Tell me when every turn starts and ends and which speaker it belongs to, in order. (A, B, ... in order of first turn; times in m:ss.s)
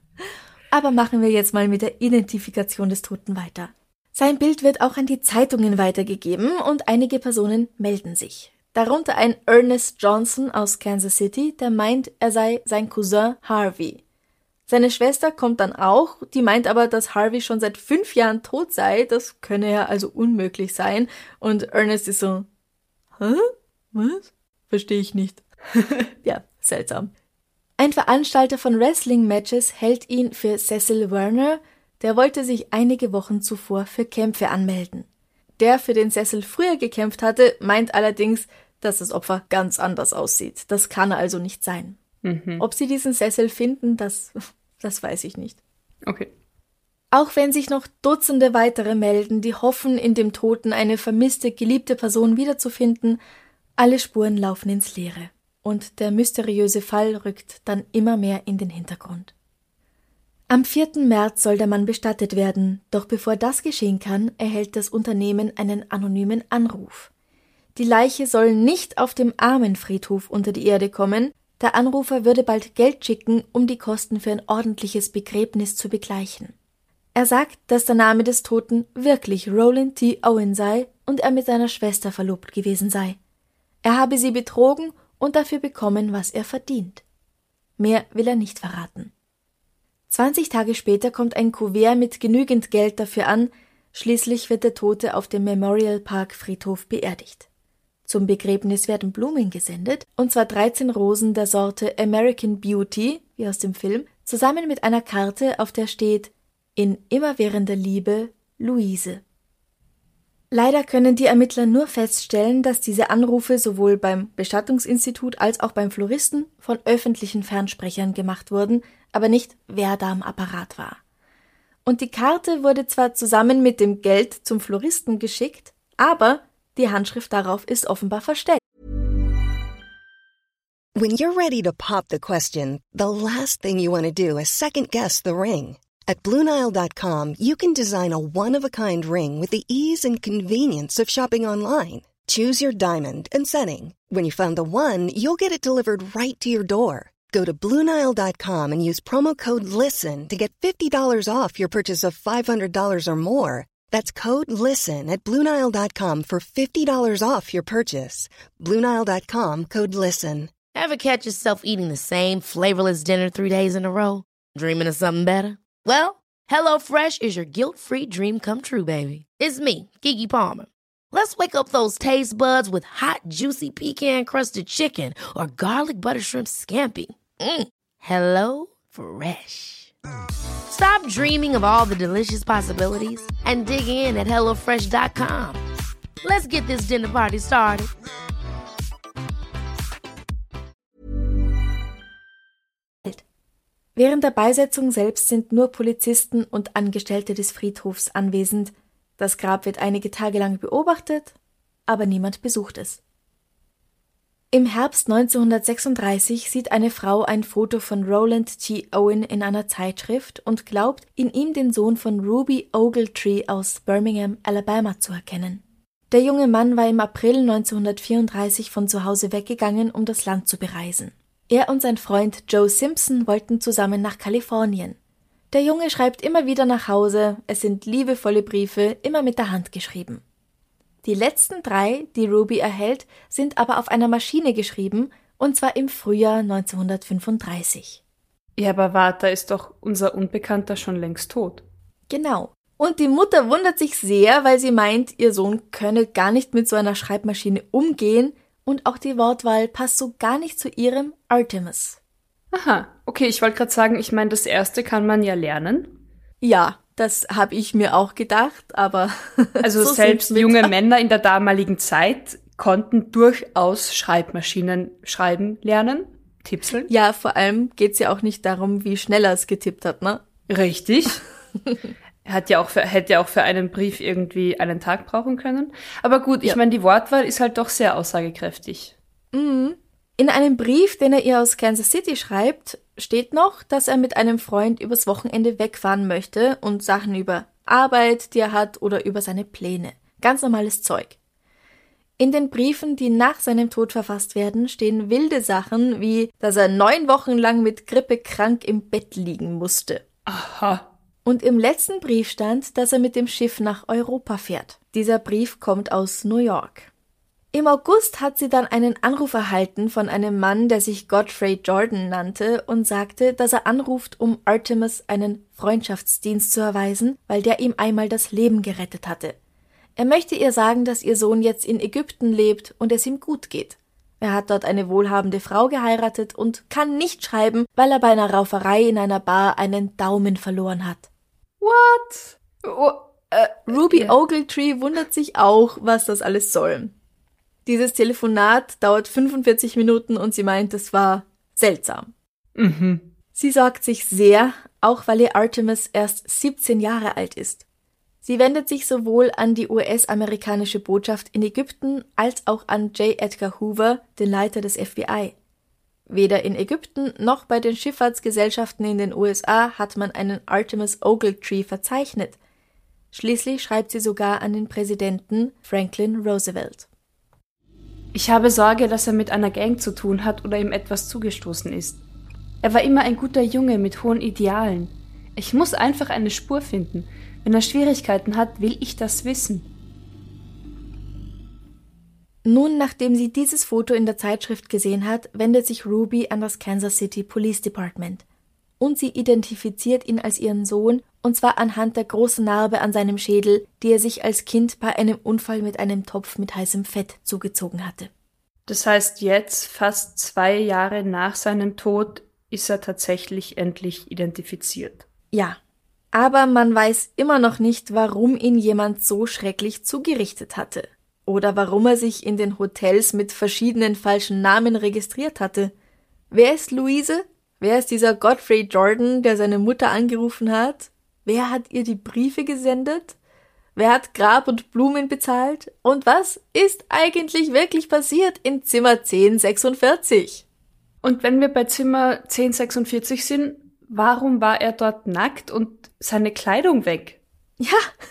0:00.7-0:14.0 A
0:14.7-0:22.5 A
0:23.2-0:25.4 A
0:26.2-0:27.1 A
0:27.8-0:35.1 A
0:35.6-0:42.0 A
0:42.2-0:42.6 B
0:42.6-0:45.6 A
0:47.1-0:53.2 A
0:53.8-0:59.3 A
1:00.5-1:07.1 A
1:07.7-1:16.5 A
1:17.1-1:23.2 A
1:23.8-1:27.0 A
1:27.8-1:29.1 A
1:30.1-1:37.5 A
1:38.0-1:49.2 A
1:50.5-2:01.0 A
2:01.8-2:08.6 A
2:11.0-2:40.5 C
2:40.7-2:59.9 D
3:00.7-3:05.6 D
3:06.2-3:07.9 D
3:14.0-3:21.3 A
3:21.9-3:23.0 A
3:24.5-3:45.0 A
3:45.5-3:50.2 A
3:51.0-3:58.0 A
3:58.6-4:01.6 B
4:02.1-4:12.0 A
4:12.5-4:15.9 B
4:16.4-4:20.7 A
4:19.6-4:26.9 B
4:26.9-4:30.2 A
4:30.5-4:31.2 B
4:32.2-4:38.9 B
4:39.3-4:51.2 A
4:52.2-5:00.0 A
5:00.3-5:00.9 B
5:01.2-5:06.9 A
5:07.5-5:19.4 A
5:20.0-5:31.1 A
5:31.6-5:34.1 B
5:33.7-5:36.9 A
5:37.6-5:42.1 A
5:42.6-5:43.1 B
5:43.3-5:47.6 A
5:48.2-5:55.3 A
5:56.1-6:02.4 A
6:03.1-6:06.9 A
6:08.1-6:12.0 B
6:12.6-6:19.6 B
6:22.4-6:28.2 A
6:28.8-6:38.1 A
6:38.7-6:45.0 B
6:45.3-6:45.6 A
6:46.1-6:55.7 A
6:56.3-7:03.2 A
7:03.8-7:10.4 A
7:11.0-7:17.2 B
7:17.6-7:17.9 A